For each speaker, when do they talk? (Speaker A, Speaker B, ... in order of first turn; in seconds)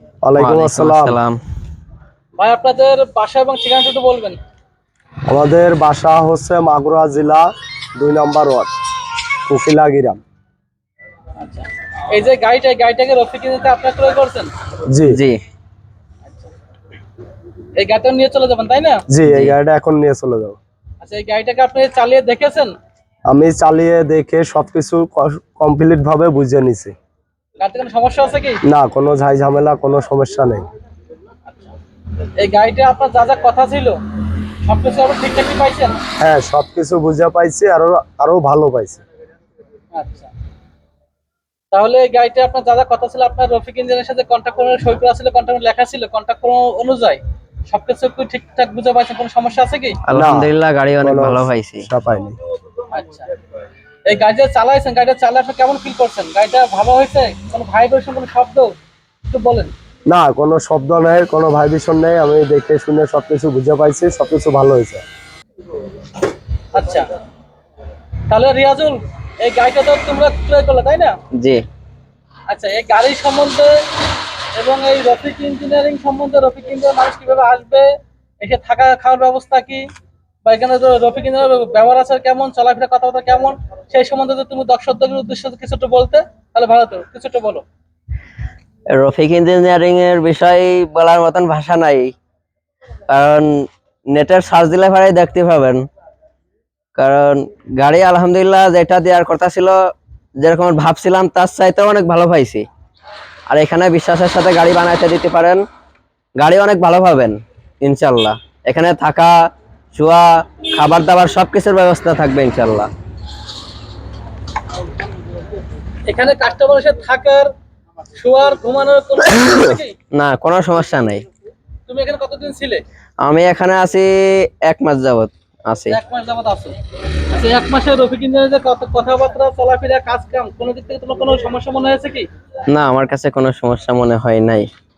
Speaker A: 0.2-1.2, 5.3-8.7, 9.5-10.2, 14.9-15.2, 19.1-20.6, 23.3-26.9, 28.7-30.6, 36.2-39.0, 50.1-50.5, 51.0-52.4, 60.1-65.0
Speaker B: 0.4-1.4, 15.1-15.4, 19.3-19.6, 50.1-51.9, 88.9-92.1, 93.1-95.8, 97.0-99.8, 100.4-102.7, 103.5-105.6, 106.4-109.3, 109.9-112.9, 120.1-121.2, 123.2-126.0, 132.7-134.7
Speaker C: 2.4-4.4, 11.4-14.5, 17.8-19.0, 21.0-22.7, 27.6-28.6, 32.4-34.0, 34.6-36.0, 39.9-40.3, 41.7-50.0, 52.9-53.2, 54.1-58.7, 59.3-59.7, 66.7-67.1, 68.3-71.2, 72.5-73.7, 74.6-77.9, 78.4-79.8, 80.5-87.6, 116.1-117.5, 118.2-120.0, 121.9-122.8, 125.9-126.7, 127.3-132.2